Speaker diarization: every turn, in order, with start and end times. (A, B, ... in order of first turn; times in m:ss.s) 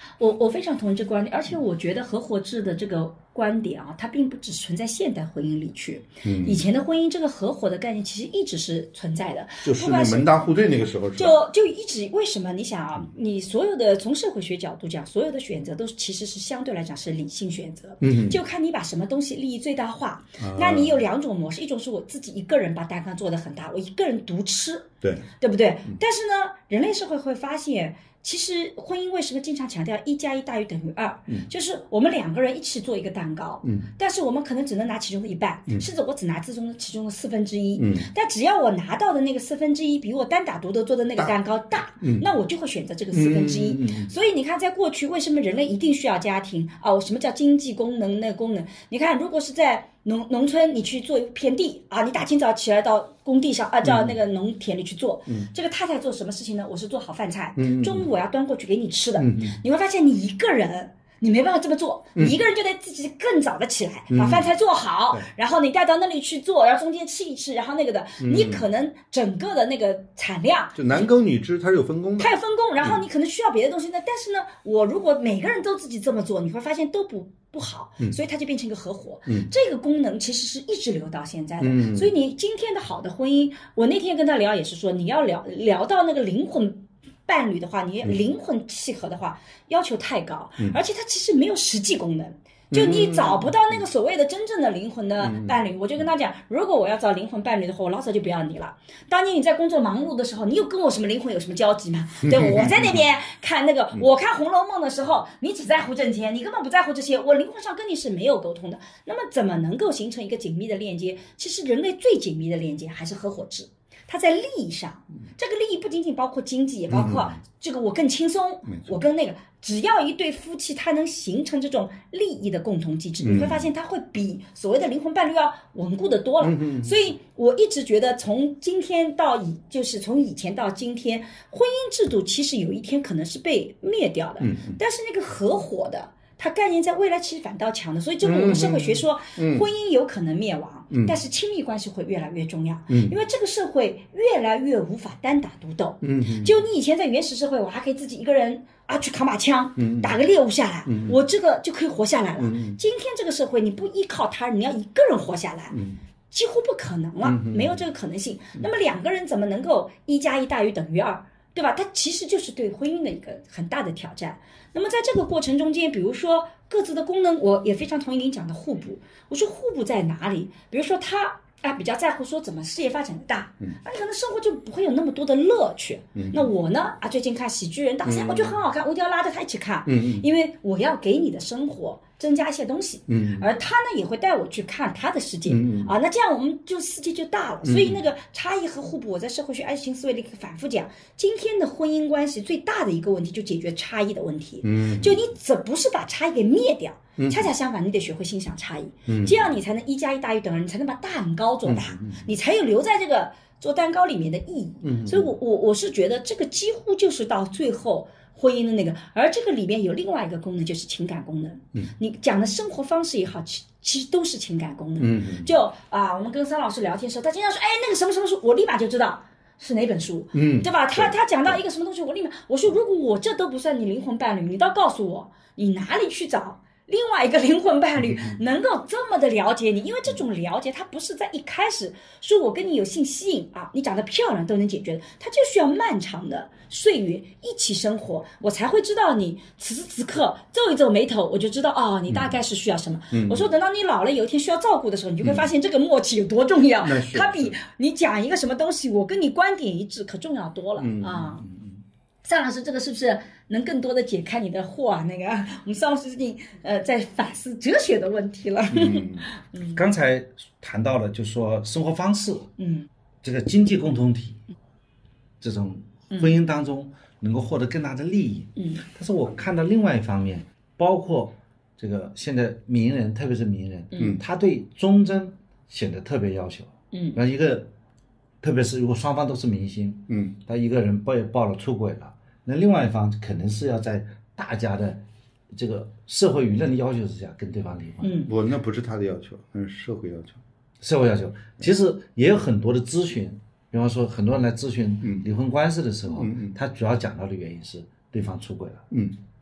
0:00.2-0:10.6 A
0:06.2-0:06.6 B
0:09.6-0:11.4 B
0:11.2-1:11.1 A
0:18.0-0:18.4 B
0:20.4-0:21.0 B
0:33.6-0:33.9 B
0:37.8-0:38.1 B
0:42.0-0:42.3 B
0:43.1-0:44.1 B
0:53.8-0:54.2 B
0:57.6-0:58.1 B
0:59.2-0:59.6 B
1:04.1-1:04.5 B
1:08.2-1:08.6 B
1:10.8-1:13.0 B
1:12.2-4:11.4 A
1:21.6-1:22.1 B
1:32.7-1:33.8 B
1:35.2-1:35.6 B
1:42.2-1:43.0 B
1:56.9-1:57.4 B
1:58.7-1:59.0 B
2:03.2-2:03.7 B
2:06.4-2:07.0 B
2:14.4-2:14.8 B
2:18.2-2:19.6 B
2:22.9-2:23.1 B
2:26.0-2:26.5 B
2:29.8-2:30.1 B
2:30.9-2:31.2 B
2:32.4-2:32.8 B
2:35.7-2:36.0 B
2:37.2-2:37.8 B
2:56.1-2:56.5 B
2:58.0-2:58.6 B
2:59.9-3:00.3 B
3:03.1-3:03.5 B
3:05.5-3:05.9 B
3:07.6-3:08.0 B
3:14.6-3:15.2 B
3:17.2-3:17.5 B
3:19.1-3:19.6 B
3:21.6-3:22.4 B
3:24.8-3:25.3 B
3:35.0-3:35.5 B
3:40.3-3:41.6 B
3:48.1-3:48.4 B
4:03.1-4:03.5 B
4:05.2-4:05.5 B
4:06.8-4:07.6 B
4:10.8-4:11.8 B
4:12.2-4:19.8 A
4:18.7-4:19.3 B
4:19.7-4:22.5 C
4:22.6-4:22.9 A
4:23.2-4:24.4 C
4:25.4-4:37.7 C
4:28.6-4:28.8 A
4:36.9-4:37.2 A
4:38.4-4:48.2 C
4:40.1-4:40.4 B
4:48.0-4:48.3 A
4:48.3-4:50.4 B
4:50.8-4:58.8 C
4:56.1-4:56.6 B
4:58.9-4:59.2 B